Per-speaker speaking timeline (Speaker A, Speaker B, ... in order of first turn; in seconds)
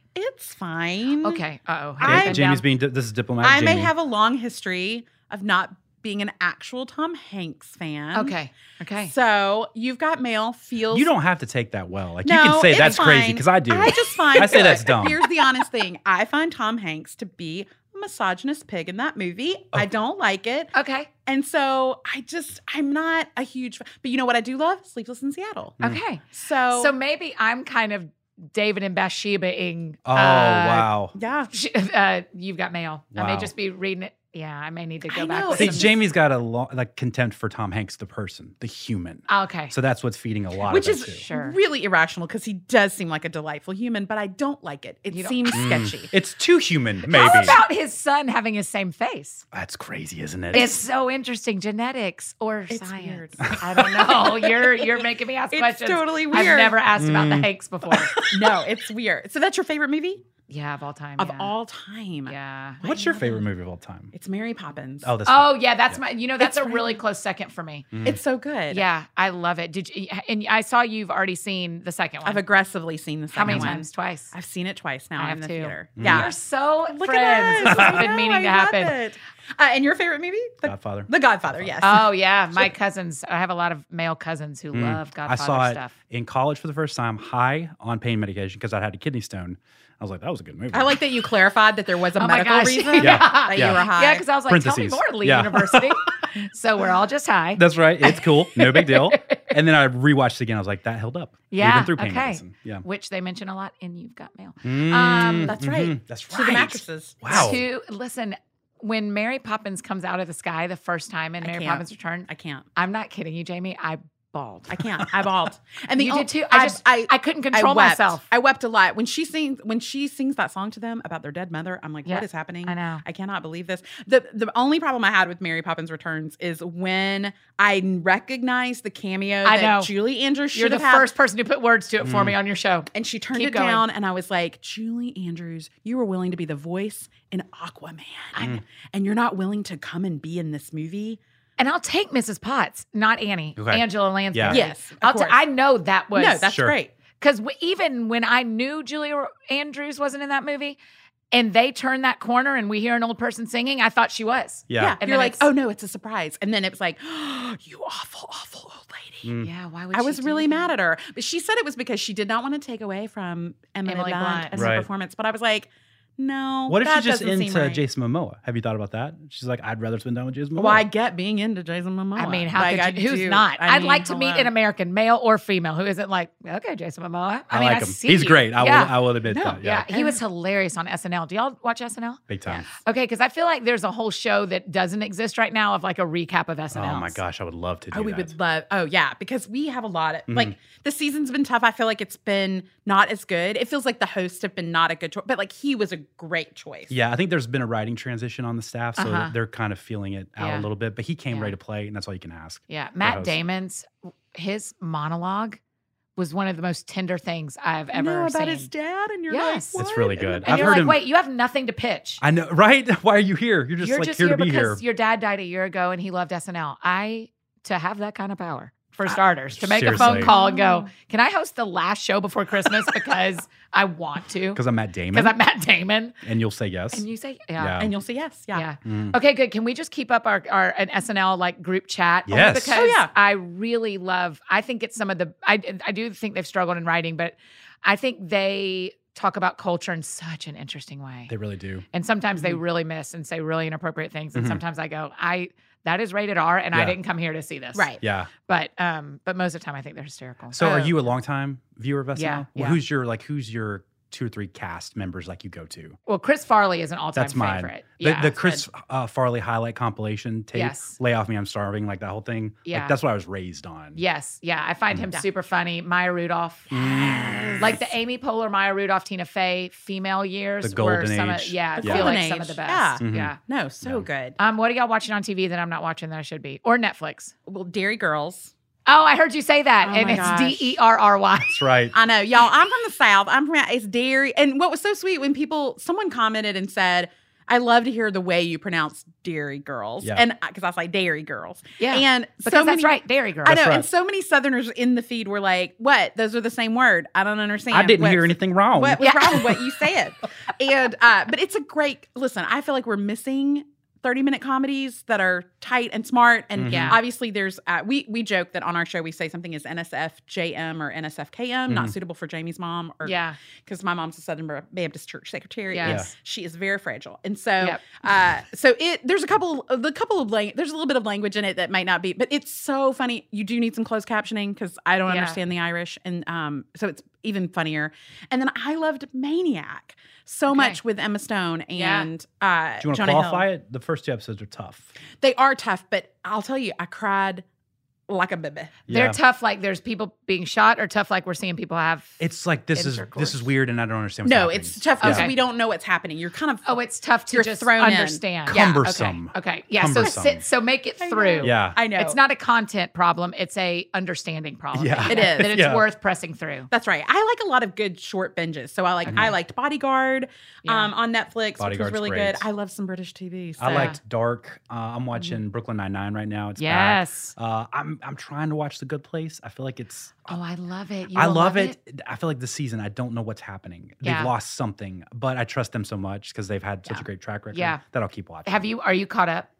Speaker A: 0.1-1.4, 2.0-2.6, 3.4-8.3, 9.0-11.1, 12.2-20.7, 21.2-26.9, 31.1-31.5, 35.1-35.9, 40.6-46.1, 52.7-56.8, 58.2-60.2, 61.2-63.4, 64.1-65.1, 66.4-67.0, 68.0-68.8, 72.2-76.3, 76.9-82.7, 90.7-94.2, 104.9-107.6, 111.4-112.7, 114.7-131.1, 132.9-141.2, 144.5-145.4, 146.1-146.9, 154.8-159.3, 159.9-167.8, 170.6-174.5, 179.3-180.2, 187.9-196.9, 207.9-210.7, 219.9-220.9, 227.8-228.7, 232.7-233.1, 247.7-248.0, 267.1-267.5, 271.8-274.4, 277.4-278.5, 279.8-280.8, 281.9-333.4, 335.2-337.4, 338.1-338.8, 344.2-346.8, 347.3-348.8, 351.0-352.2, 355.1-355.6, 356.7-363.9
Speaker B: 1.2-2.6, 8.1-9.1, 13.9-14.5, 20.7-21.1, 25.8-30.9, 31.5-35.9, 39.3-39.7, 41.2-41.6, 45.1-45.6, 47.1-49.5, 50.5-58.1, 60.5-61.5, 62.2-62.8, 65.2-67.9, 68.7-72.4, 73.3-74.3, 75.2-79.0, 81.8-85.9, 92.2-99.5, 101.5-105.5, 107.3-114.8, 116.0-118.2, 122.0-123.0, 129.4-129.9, 130.5-133.8, 141.6-146.5, 147.2-150.8, 151.3-155.5, 159.4-160.7, 163.8-164.6, 172.2-179.0, 179.6-187.2, 198.9-199.3, 200.4-200.7, 201.3-201.5, 202.7-205.6, 206.2-208.7, 209.3-209.8, 210.4-212.2, 213.8-226.2, 226.9-227.8, 228.5-241.3, 241.9-251.0, 252.1-252.8, 256.1-258.6, 260.5-261.0, 262.6-262.9, 263.9-273.4, 274.4-277.3, 278.9-281.6, 291.8-293.7, 299.0-299.5, 306.6-307.0, 313.0-313.4, 315.7-316.1, 325.1-325.4, 330.5-330.8, 331.8-332.1, 338.9-342.2, 342.7-343.5, 345.0-345.3, 346.6-356.7, 360.6-360.9, 363.7-364.0, 366.6-367.3, 370.3-371.8, 374.0-374.3, 376.9-377.8, 378.4-379.5
Speaker C: 2.0-3.9, 10.9-15.2, 30.0-31.1, 33.1-33.5, 35.5-41.2, 45.5-47.6, 49.5-50.8, 53.4-54.1, 57.0-58.6, 62.8-64.1, 65.0-66.0, 67.9-68.2, 73.5-73.7, 76.0-76.3, 77.7-78.0, 80.7-81.8, 84.7-91.0, 93.0-93.9, 94.5-96.0, 97.5-102.8, 104.6-107.6, 132.0-132.4, 143.6-144.6, 146.5-146.8, 154.7-155.0, 159.2-159.5, 164.5-164.9, 166.7-170.8, 177.5-179.9, 182.3-182.7, 186.7-188.3, 190.3-190.5, 196.9-203.3, 209.8-211.0, 212.2-214.8, 219.6-220.3, 224.5-225.4, 226.2-227.0, 227.6-227.9, 228.8-229.2, 232.3-232.8, 241.3-241.8, 244.3-244.6, 248.0-248.3, 250.5-256.0, 257.1-264.0, 266.7-267.8, 270.6-272.1, 273.0-274.1, 281.4-281.9, 293.5-293.9, 297.7-299.6, 306.6-307.0, 311.7-311.9, 315.8-316.1, 332.8-334.9, 338.9-339.2, 342.2-345.3, 348.4-350.4, 351.4-351.8, 354.7-355.8, 359.1-359.4, 361.6-362.4, 363.6-370.4, 371.1-378.7